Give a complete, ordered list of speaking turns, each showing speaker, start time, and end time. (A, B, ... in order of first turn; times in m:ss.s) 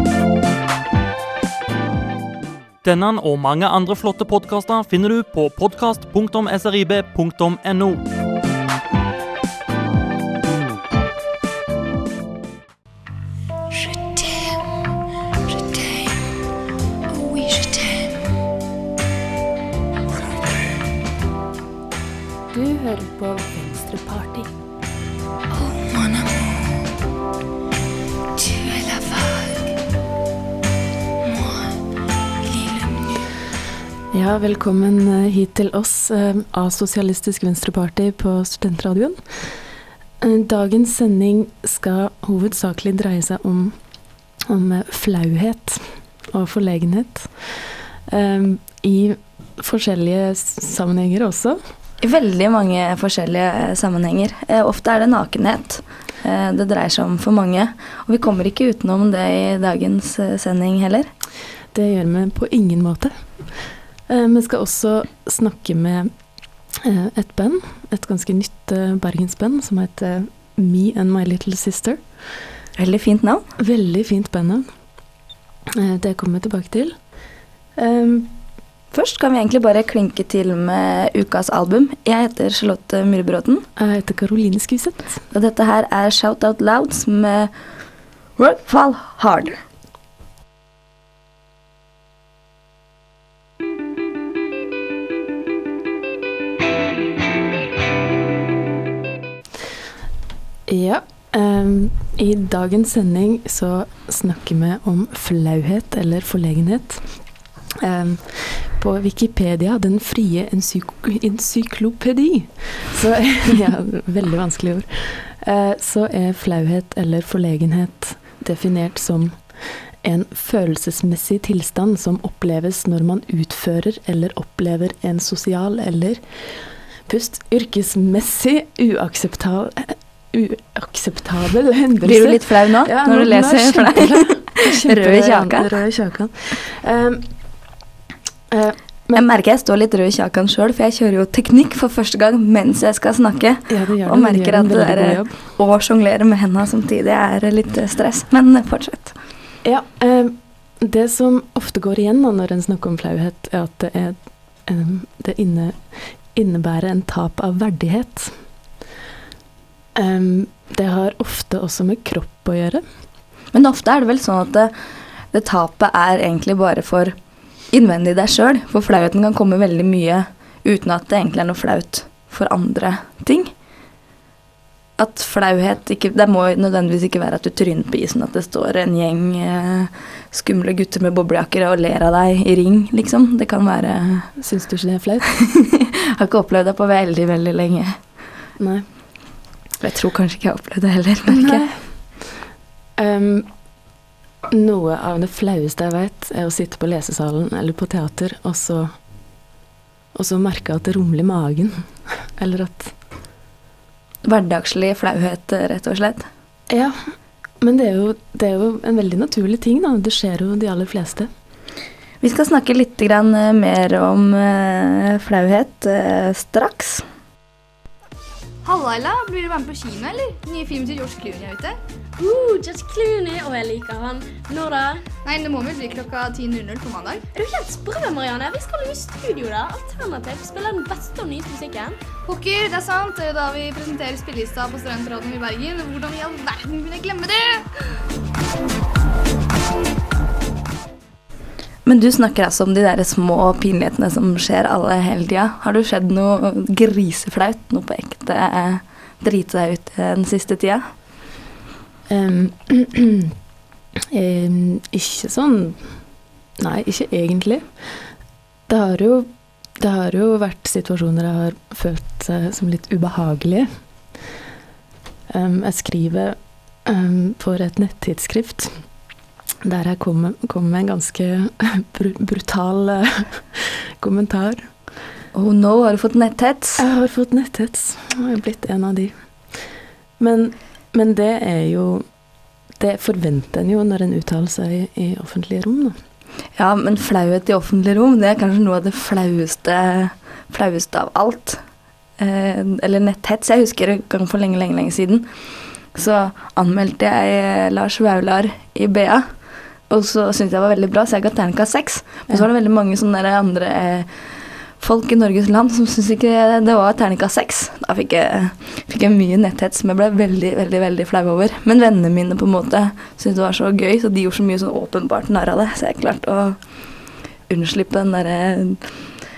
0:02.8-0:08.0 A
0:13.8-0:14.6 B
0:15.5-0:16.2 B
0:17.1-0:18.1 B
0:20.1-0:20.5 B
0:22.5-0:24.5 B
0:25.8-0:26.4 B
0:28.4-0:29.6 B
0:31.3-0:31.7 B
0:34.1-0:39.6 B
0:40.2-0:43.8 B
0:44.3-0:51.6 B
0:52.0-1:01.1 C
1:01.7-1:12.2 B
1:12.8-1:13.4 C
1:13.6-1:14.8 B
1:15.7-1:17.2 B
1:17.7-1:18.3 B
1:18.9-1:23.6 C
1:23.8-1:25.2 B
1:25.3-1:27.5 C
1:28.4-1:29.6 C
1:40.7-2:17.6 B
2:12.0-2:15.7 C
2:18.5-2:19.3 B
2:19.1-2:29.1 C
2:23.7-2:25.3 B
2:29.6-2:38.4 B
2:39.9-2:42.8 B
2:43.5-2:44.7 C
2:45.3-2:47.1 C
2:47.7-2:53.5 C
2:55.0-3:04.4 C
3:04.4-3:05.4 B
3:05.4-3:08.0 C
3:08.6-3:08.9 B
3:09.8-3:11.7 C
3:11.3-3:12.3 B
3:13.0-3:13.6 B
3:14.5-3:19.0 B
3:20.1-3:22.9 B
3:24.2-3:26.2 C
3:26.7-3:31.3 B
3:32.2-3:37.0 C
3:38.6-3:41.8 D
3:42.2-3:45.0 E
3:45.2-3:47.2 D
3:47.3-3:52.0 E
3:52.2-3:57.6 D
4:01.8-4:10.8 C
4:12.1-4:13.3 B
4:14.1-4:18.1 B
4:18.7-4:23.8 B
4:25.3-4:28.9 B
4:29.6-4:34.8 B
4:35.3-4:36.8 C
4:36.8-4:42.1 B
4:42.8-4:46.0 B
4:46.6-4:51.6 C
4:52.2-5:19.2 C